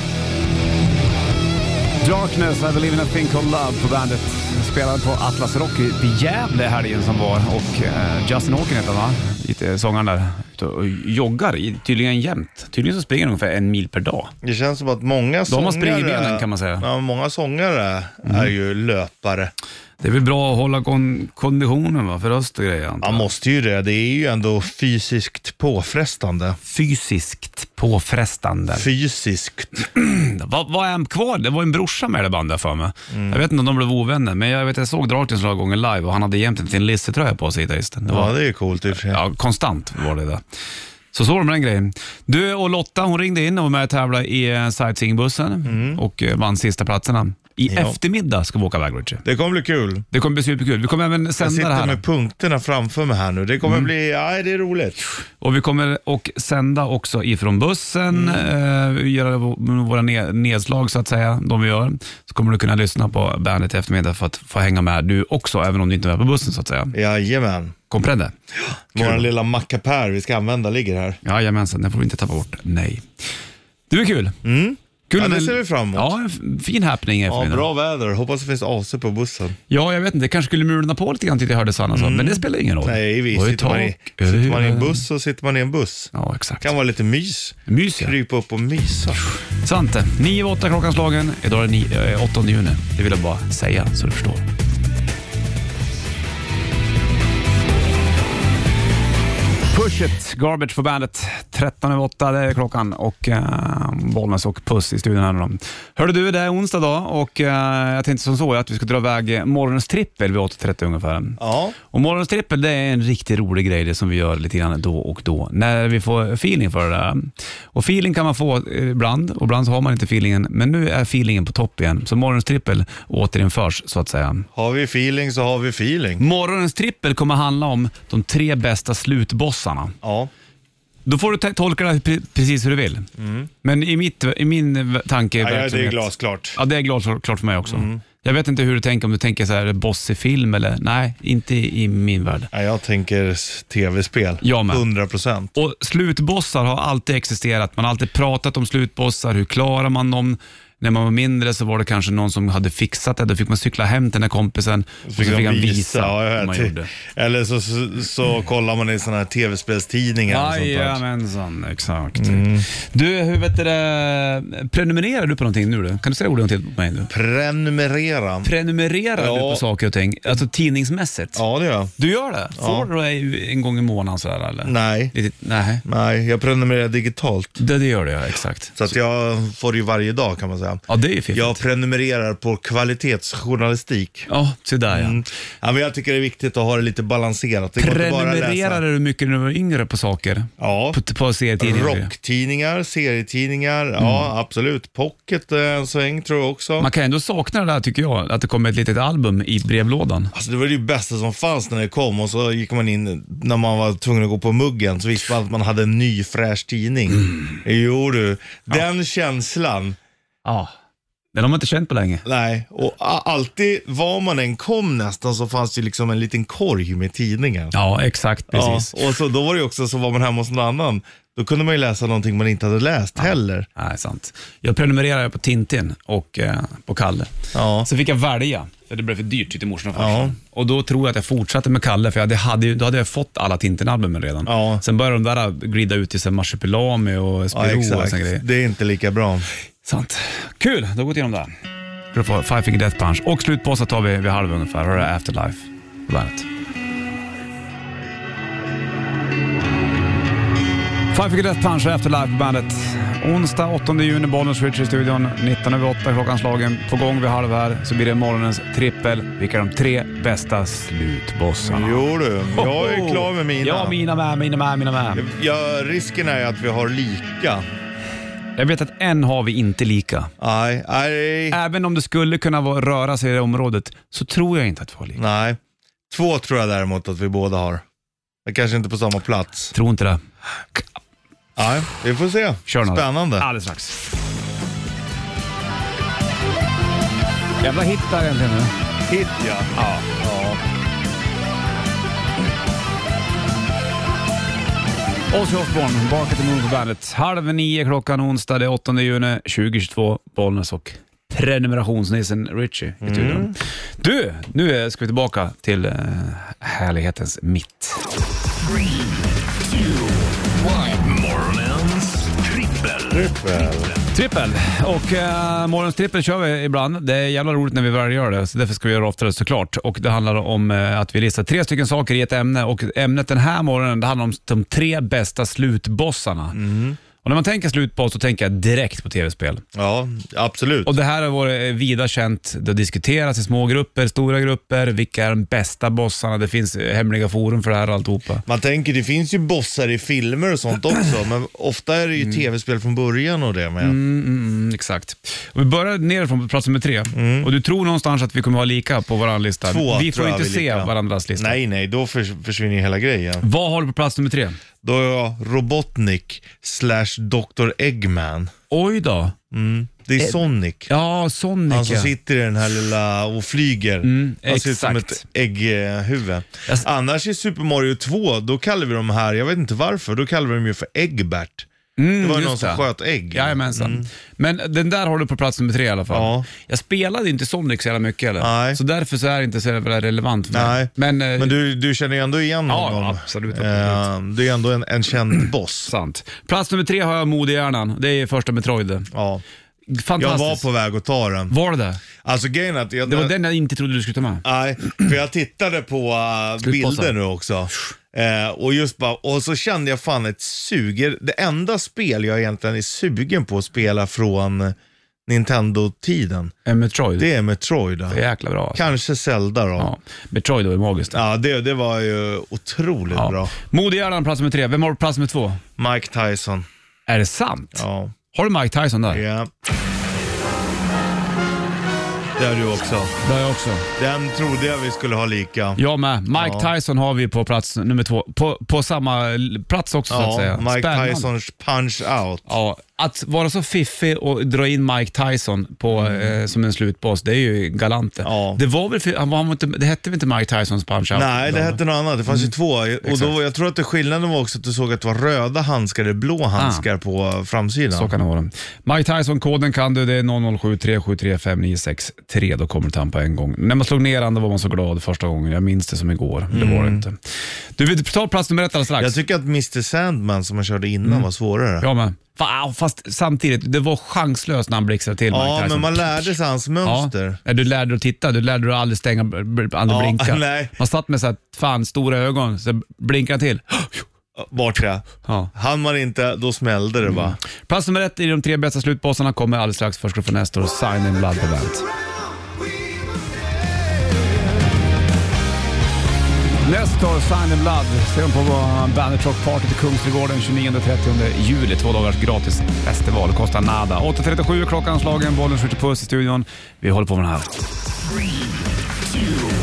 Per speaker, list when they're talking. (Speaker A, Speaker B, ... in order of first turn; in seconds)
Speaker A: 2.0-14.3, 15.5-16.9, 20.0-23.3, 26.7-28.9, 29.9-38.4, 38.9-40.4, 41.1-49.2, 50.1-52.0, 55.4-67.0, 67.9-68.3, 69.0-69.2, 71.2-73.0, 73.9-74.4, 75.1-77.7, 79.7-85.0, 86.1-86.7, 87.7-88.1, 89.6-94.5, 99.7-124.5, 126.2-130.0, 131.1-133.1, 133.6-142.5, 144.4-144.8, 145.6-156.9, 160.3-167.1, 168.4-171.4, 172.0-175.8, 177.6-178.9, 180.9-181.6, 184.3-185.2, 187.8-192.1, 194.0-194.3, 196.8-200.3, 210.4-210.7, 211.3-212.2, 217.7-219.0, 223.2-227.3, 227.8-238.4, 239.8-241.5, 242.1-246.5, 251.1-265.2, 268.6-270.3, 271.5-275.2, 279.7-280.2, 282.7-284.0, 287.6-288.7, 289.8-290.1, 295.3-308.0, 314.1-326.6, 327.2-329.6, 330.9-338.4, 343.8-351.6, 353.4-354.6, 358.7-359.4, 360.9-362.1, 364.0-365.2, 372.0-381.6, 382.7-384.1, 385.9-389.1, 389.9-390.7, 391.5-392.0, 393.1-394.4, 396.6-397.1, 406.7-407.3, 408.1-408.9, 409.8-411.2, 413.1-415.6, 417.1-419.2, 423.2-423.9, 425.8-431.3, 432.5-442.5, 443.1-443.4, 446.6-446.9, 447.9-457.2, 457.8-459.2, 461.8-466.3, 466.9-474.1, 475.2-475.5, 477.1-481.9, 486.6-497.6
Speaker B: 14.4-19.5, 23.0-26.6, 28.7-29.9, 33.1-33.4, 38.1-39.2, 45.6-46.0, 47.7-48.0, 49.2-50.1, 51.4-55.0, 58.1-58.5, 66.9-67.8, 68.6-71.2, 74.4-76.1, 77.3-79.6, 81.9-89.2, 111.4-111.8, 124.5-126.2, 130.0-130.3, 133.2-133.5, 135.4-136.6, 137.7-138.0, 142.5-145.5, 155.1-161.0, 162.2-162.7, 167.1-168.5, 169.2-169.6, 171.3-171.9, 172.6-172.9, 174.7-175.1, 175.8-177.6, 178.8-184.3, 184.9-188.8, 190.6-191.0, 191.6-196.9, 200.3-210.0, 212.2-217.8, 218.5-223.7, 227.5-227.9, 229.9-230.4, 234.4-234.8, 237.5-239.5, 261.6-264.0, 265.1-267.6, 270.4-271.6, 275.2-275.6, 276.1-277.8, 278.5-279.7, 281.6-283.5, 289.1-290.6, 303.0-303.6, 313.1-313.9, 326.5-327.0, 329.8-330.9, 338.5-344.0, 347.1-347.5, 349.6-353.4, 354.8-358.5, 359.5-360.9, 361.7-374.1, 376.1-376.5, 378.4-378.8, 380.5-385.9, 389.1-389.4, 390.2-391.5, 392.2-393.3, 394.4-404.8, 405.3-406.5, 407.2-408.2, 408.7-409.9, 411.1-413.5, 415.8-416.7, 417.8-418.1, 419.1-419.5, 422.4-423.2, 424.0-425.8, 426.3-426.7, 430.1-432.5, 435.9-436.3, 438.2-438.6, 441.1-448.1, 456.5-457.0, 459.0-461.9, 465.3-467.4, 469.9-470.8, 474.4-477.4
Speaker C: 309.8-310.0, 310.6-313.3, 499.1-499.5